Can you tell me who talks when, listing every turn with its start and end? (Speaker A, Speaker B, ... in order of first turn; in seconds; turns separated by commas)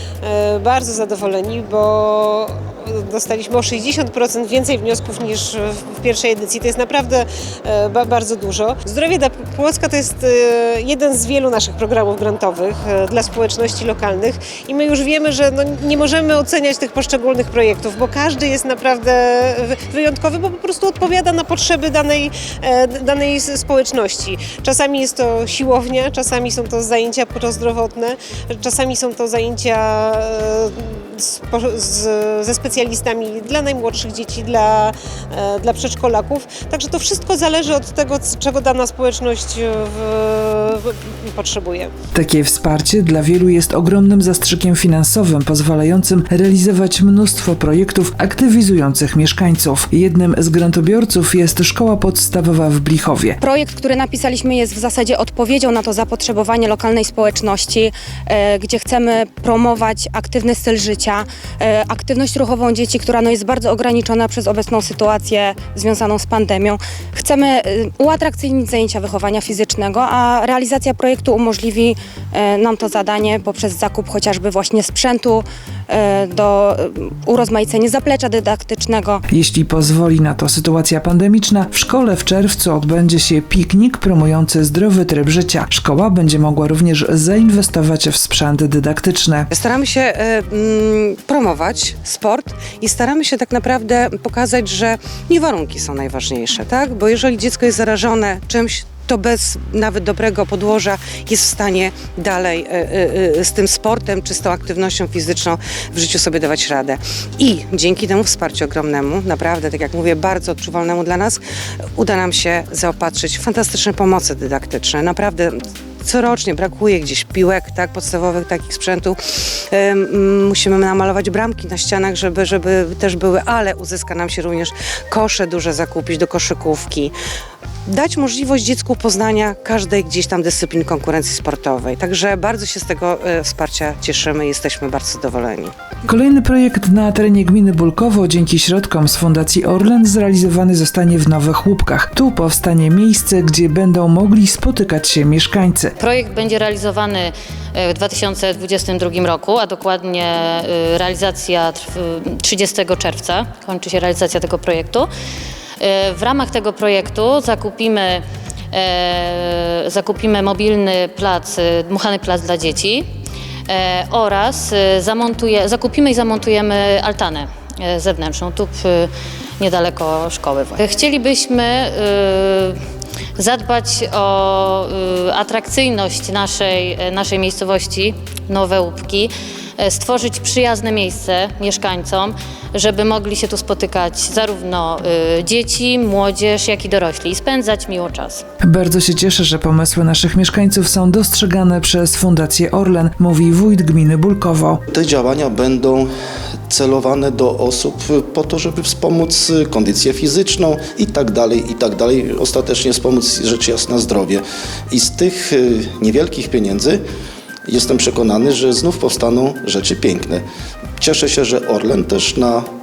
Speaker A: 0.3-2.4, Speaker A: 3.2-30.6, Speaker A: 31.6-34.7, Speaker A: 35.4-40.6, Speaker A: 41.4-41.8, Speaker B: 42.1-53.4, Speaker C: 53.4-79.2, Speaker B: 79.3-89.5, Speaker D: 89.5-111.4, Speaker D: 112.0-127.1, Speaker D: 127.9-135.7, Speaker B: 136.1-145.9, Speaker E: 146.0-155.1, Speaker E: 155.8-163.1, Speaker E: 163.7-172.8, Speaker E: 173.4-188.4, Speaker B: 188.6-194.8, Speaker F: 194.9-196.1, Speaker F: 196.7-207.0, Speaker F: 207.7-210.4, Speaker F: 211.0-212.7